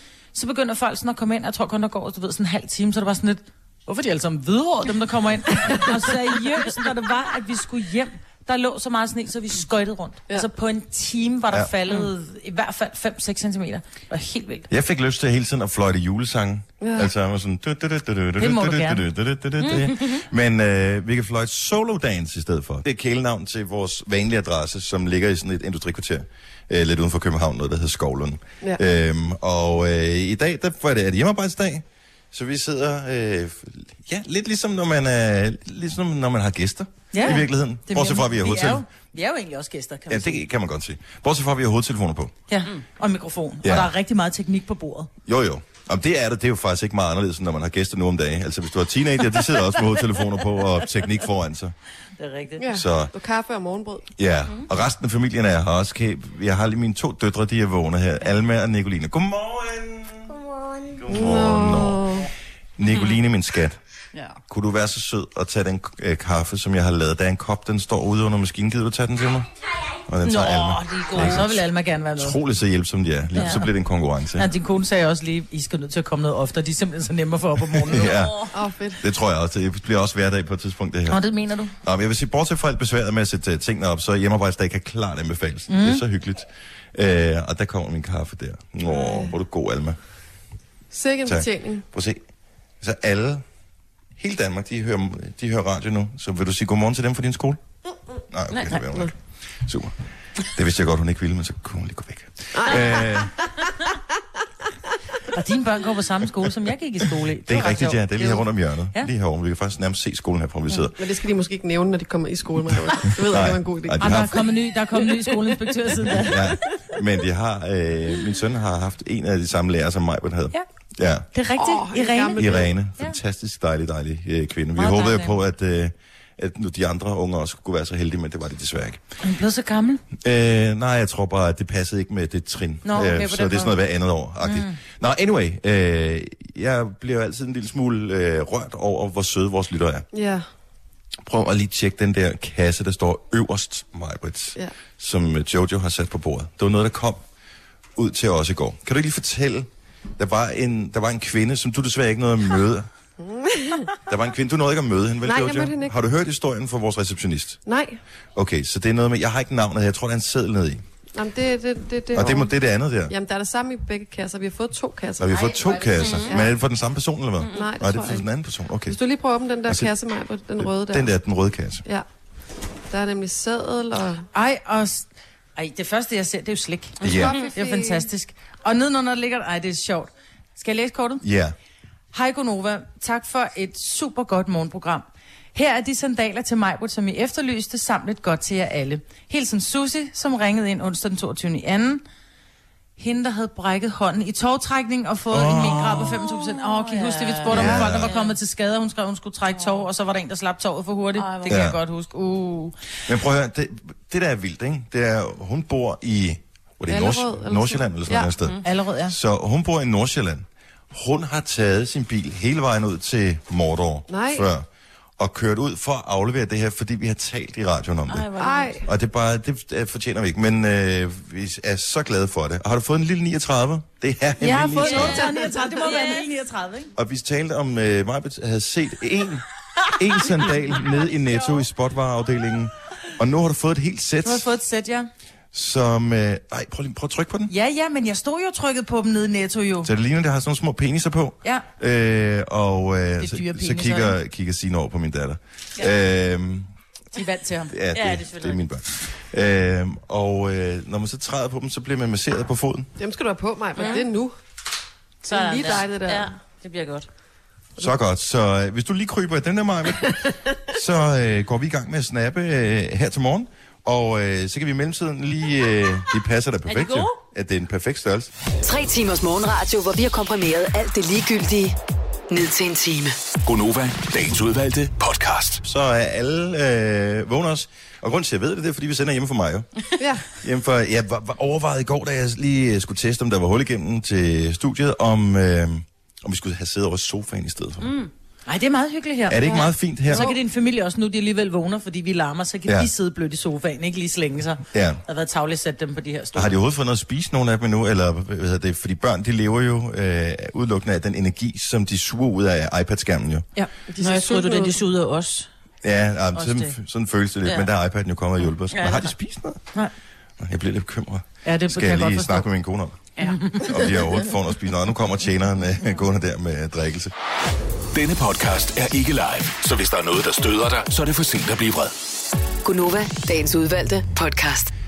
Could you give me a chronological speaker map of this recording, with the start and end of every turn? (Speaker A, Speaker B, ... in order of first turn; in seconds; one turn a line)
Speaker A: 0.3-14.7
Speaker B: 14.7-38.9
Speaker C: 16.8-17.1
Speaker A: 18.4-19.0
Speaker D: 19.6-19.9
Speaker A: 37.1-40.4
Speaker B: 40.1-42.3
Speaker A: 42.5-45.1
Speaker B: 43.6-43.9
Speaker B: 45.2-51.7
Speaker A: 52.2-52.6
Speaker C: 52.6-54.1
Speaker B: 52.7-53.1
Speaker B: 54.2-63.8
Speaker C: 61.1-62.3
Speaker D: 62.9-63.2
Speaker B: 64.5-71.6
Speaker D: 70.2-71.5
Speaker A: 71.1-72.4
Speaker B: 72.2-74.5
Speaker D: 73.3-73.6
Speaker A: 74.4-78.2
Speaker B: 77.7-81.2
Speaker D: 78.0-78.5
Speaker C: 78.5-79.0
Speaker A: 81.1-81.7
Speaker B: 81.8-90.0
Speaker A: 85.7-86.0
Speaker C: 88.9-89.3
Speaker C: 90.9-91.8
Speaker B: 91.2-92.2
Speaker B: 92.8-93.4
Speaker B: 94.2-97.6
Speaker B: 98.3-99.1
Speaker D: 98.5-98.8
Speaker C: 98.8-99.1
Speaker B: 99.6-103.3
Speaker C: 102.5-103.3
Speaker A: 105.3-108.4
Speaker B: 107.5-111.0
Speaker C: 111.0-114.4
Speaker B: 113.2-114.4
Speaker A: 114.0-116.5
Speaker C: 115.3-115.7
Speaker B: 116.1-121.3
Speaker A: 121.3-123.2
Speaker C: 121.6-122.7
Speaker B: 122.3-129.0
Speaker A: 124.8-125.4
Speaker A: 129.2-130.0
Speaker B: 130.2-140.1
Speaker A: 132.8-133.7
Speaker A: 134.4-134.8
Speaker C: 140.1-140.5
Speaker B: 141.2-147.2
Speaker B: 148.0-152.9
Speaker C: 153.2-153.9
Speaker B: 154.1-157.6
Speaker C: 155.2-155.9
Speaker C: 157.7-158.0
Speaker B: 158.3-160.8
Speaker C: 161.1-162.5
Speaker B: 162.1-163.1
Speaker C: 163.1-165.7
Speaker B: 165.2-169.0
Speaker D: 165.9-166.3
Speaker C: 166.3-166.5
Speaker D: 167.4-167.7
Speaker C: 167.5-168.2
Speaker C: 168.9-171.1
Speaker B: 170.6-171.8
Speaker C: 172.9-174.2
Speaker A: 174.3-181.2
Speaker B: 177.0-177.4
Speaker D: 177.0-177.5
Speaker C: 177.0-178.1
Speaker B: 181.2-181.5
Speaker A: 182.1-192.0
Speaker A: 193.0-202.7
Speaker B: 195.3-196.2
Speaker D: 196.2-198.3
Speaker B: 197.5-198.1
Speaker D: 201.2-201.6
Speaker B: 201.5-201.8
Speaker B: 203.1-214.7
Speaker C: 206.9-208.3
Speaker A: 208.6-209.1
Speaker C: 214.1-214.5
Speaker B: 215.2-218.3
Speaker D: 218.1-218.8
Speaker C: 218.4-218.8
Speaker B: 218.8-225.3
Speaker A: 224.4-226.9
Speaker D: 224.8-225.2
Speaker C: 224.9-225.8
Speaker D: 225.8-226.2
Speaker B: 226.9-234.5
Speaker A: 234.2-235.1
Speaker B: 235.5-237.5
Speaker A: 237.5-239.9
Speaker B: 239.8-246.7
Speaker A: 243.2-244.2
Speaker A: 247.1-247.7
Speaker B: 247.7-252.9
Speaker D: 247.9-248.6
Speaker C: 253.0-254.4
Speaker D: 253.8-254.1
Speaker D: 255.2-257.1
Speaker C: 255.3-256.3
Speaker B: 257.8-268.3
Speaker D: 266.7-267.2
Speaker E: 268.6-271.8
Speaker E: 272.3-273.1
Speaker F: 273.4-275.6
Speaker B: 275.6-279.7
Speaker C: 280.0-280.3
Speaker B: 280.3-287.9
Speaker D: 287.8-288.1
Speaker A: 288.5-296.5
Speaker B: 289.3-290.3
Speaker C: 289.5-290.4
Speaker B: 294.7-295.0
Speaker B: 296.3-303.5
Speaker C: 303.9-304.8
Speaker D: 304.0-305.5
Speaker B: 305.8-309.6
Speaker A: 306.4-306.7
Speaker D: 308.7-309.1
Speaker B: 310.4-317.1
Speaker A: 311.4-312.4
Speaker A: 313.2-313.8
Speaker F: 317.9-321.9
Speaker E: 322.6-324.7